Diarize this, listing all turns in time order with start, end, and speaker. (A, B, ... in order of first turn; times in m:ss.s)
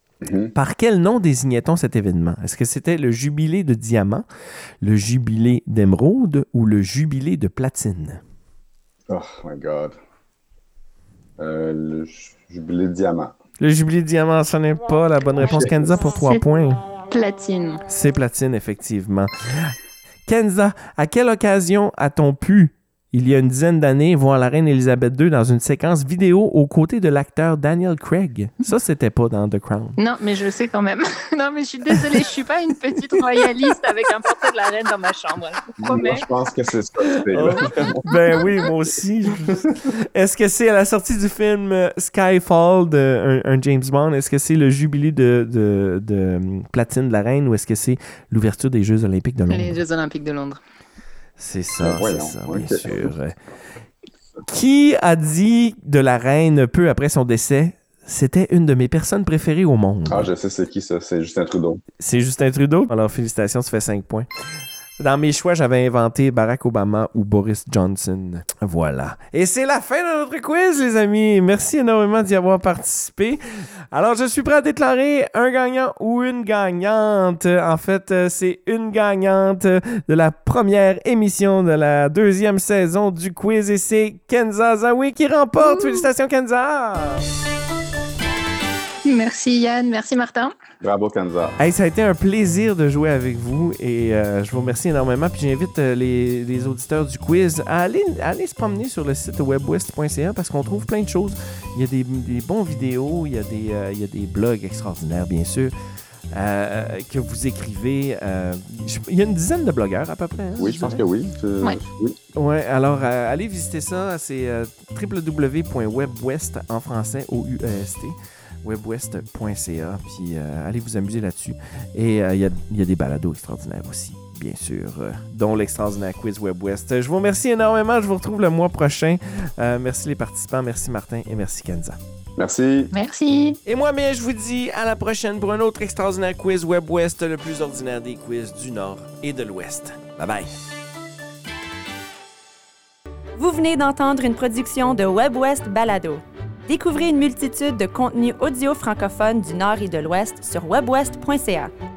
0:00.2-0:00.5 A
0:00.5-0:04.2 B
0:04.8-0:08.2 B
0:09.1-0:10.0 A
0:11.4-0:13.3 A
0:13.6-0:16.8 B
0:15.4-0:15.7 A
0:16.0-0:16.4 C
0:17.1-0:17.8 C
0:17.9-0:19.7 B
0:20.2-0:30.0 B
0:30.0-0:36.2 C
0:35.8-0:38.0 A
0:37.3-0:49.8 B
0:49.5-0:50.6 C
0:51.4-0:53.4 B
0:51.8-0:53.1 A
0:54.5-1:00.3 B
1:00.1-1:01.8 A
1:02.0-1:04.3 B
1:05.0-1:27.2 B
1:25.8-1:26.1 C
1:29.0-1:30.5 C
1:30.8-1:31.6 A
1:31.6-1:45.7 B
1:46.3-1:51.0 B
1:50.6-1:52.2 A
1:52.4-2:12.0 B
2:12.4-2:12.9 A
2:12.9-2:13.6 C
2:13.6-2:20.5 B
2:23.4-2:31.7 D